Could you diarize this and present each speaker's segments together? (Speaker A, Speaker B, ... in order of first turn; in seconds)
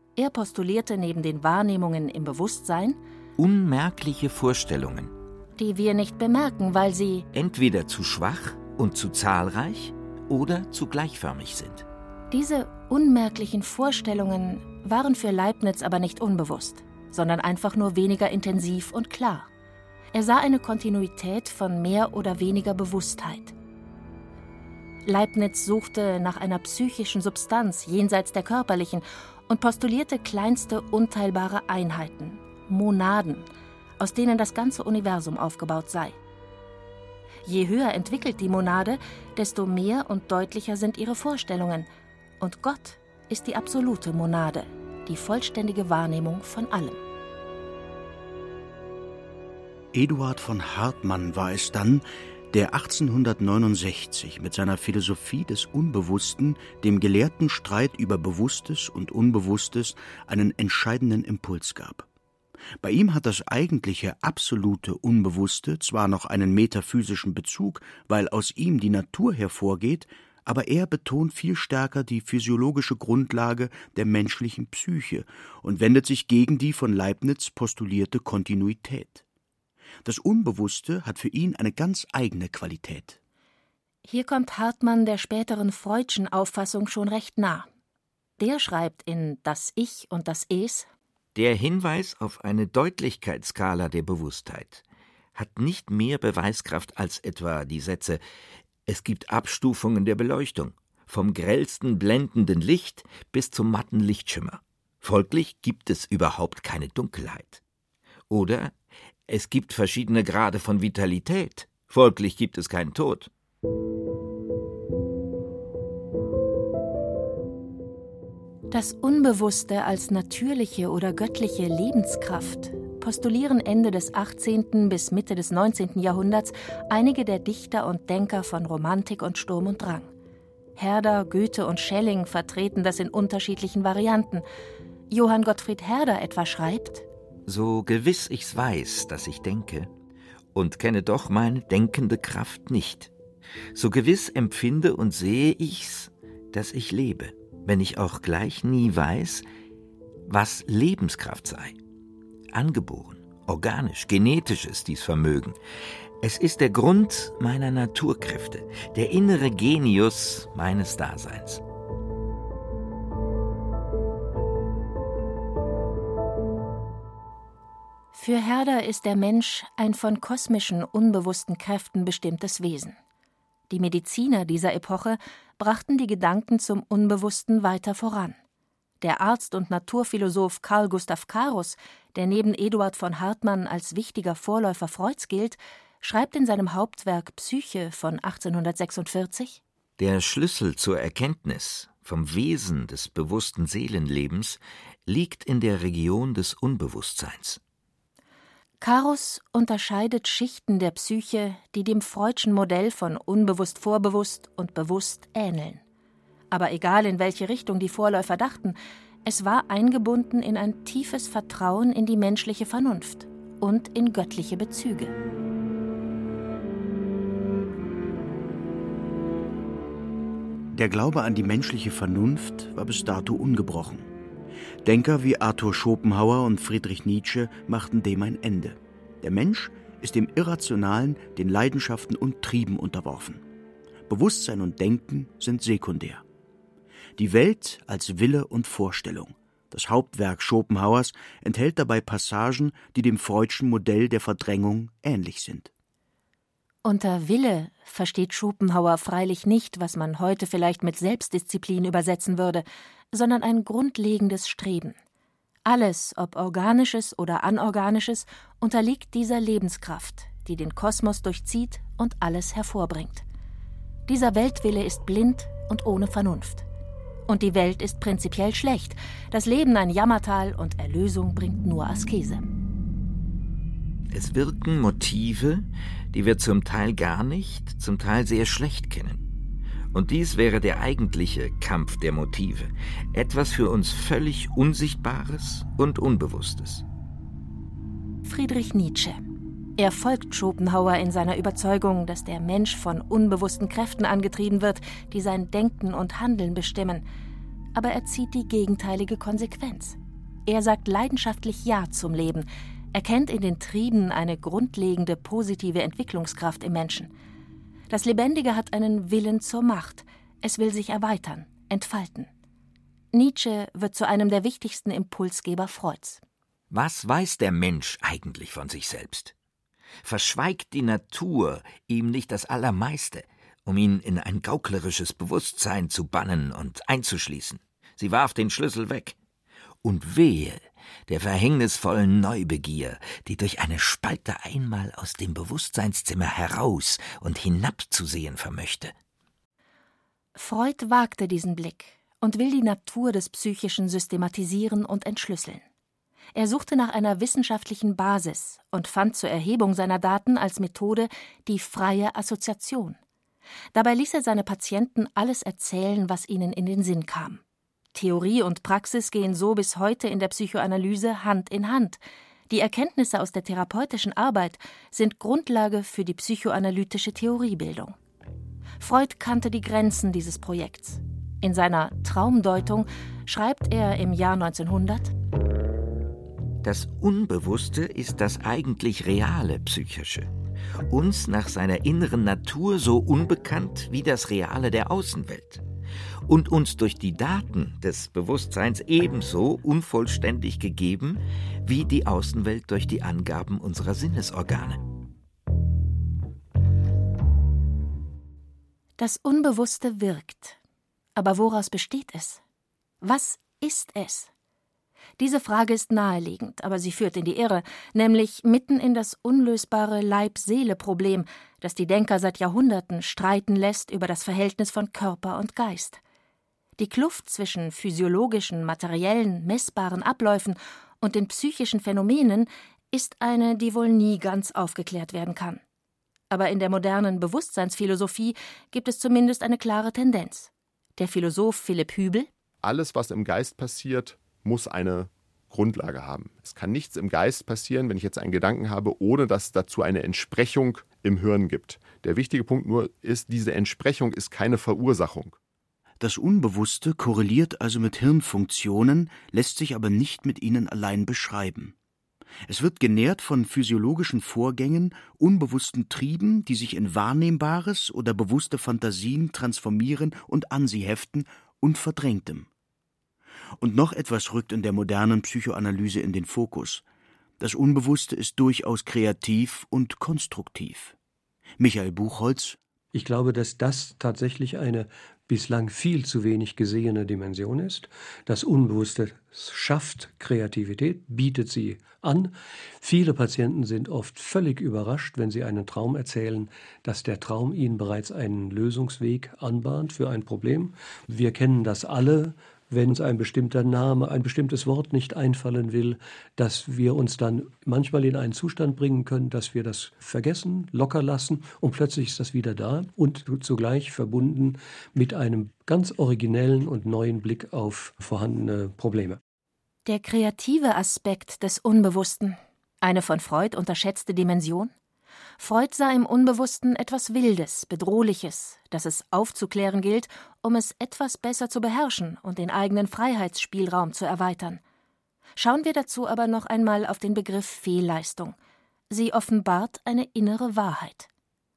Speaker A: 0.2-3.0, 5.6-7.3, 12.3-19.5, 20.1-23.5, 25.1-33.5, 34.0-36.2, 37.5-41.9, 42.4-47.0, 84.0-87.7, 88.4-90.9, 118.7-130.1, 130.8-134.4, 135.1-137.1, 168.1-173.0, 173.7-178.4, 179.0-189.6, 198.8-205.8, 206.5-215.1, 246.8-255.0, 255.7-263.2, 264.1-266.7, 267.3-272.4, 288.2-289.2, 289.8-297.0, 297.7-307.1, 307.9-312.3, 313.1-316.2, 340.4-345.6, 346.4-353.0, 353.7-357.4, 357.9-368.0, 368.8-375.1, 399.0-400.6, 401.2-402.4, 403.0-404.3, 405.2-416.0, 416.8-425.6, 426.3-432.3, 509.9-514.7, 515.4-524.6, 525.4-528.4, 528.9-531.1
Speaker B: 3.4-5.1, 7.3-11.9, 91.3-94.8, 95.3-98.2, 98.9-107.6, 108.3-108.7, 109.3-113.3, 137.5-139.9, 140.5-143.1, 143.7-149.5, 150.3-151.8, 152.5-155.6, 156.2-161.6, 190.0-197.6, 274.1-279.2, 279.9-286.8, 316.7-319.3, 320.0-329.1, 329.8-338.9, 376.6-380.3, 380.9-385.6, 386.3-394.8
Speaker C: 49.9-62.1, 62.8-79.2, 80.0-83.2, 220.7-224.1, 224.8-233.4, 234.1-236.2, 237.2-245.7, 446.0-451.8, 452.5-462.5, 463.6-466.8, 467.4-470.9, 471.6-472.6
Speaker D: 432.6-445.4
Speaker E: 472.9-509.2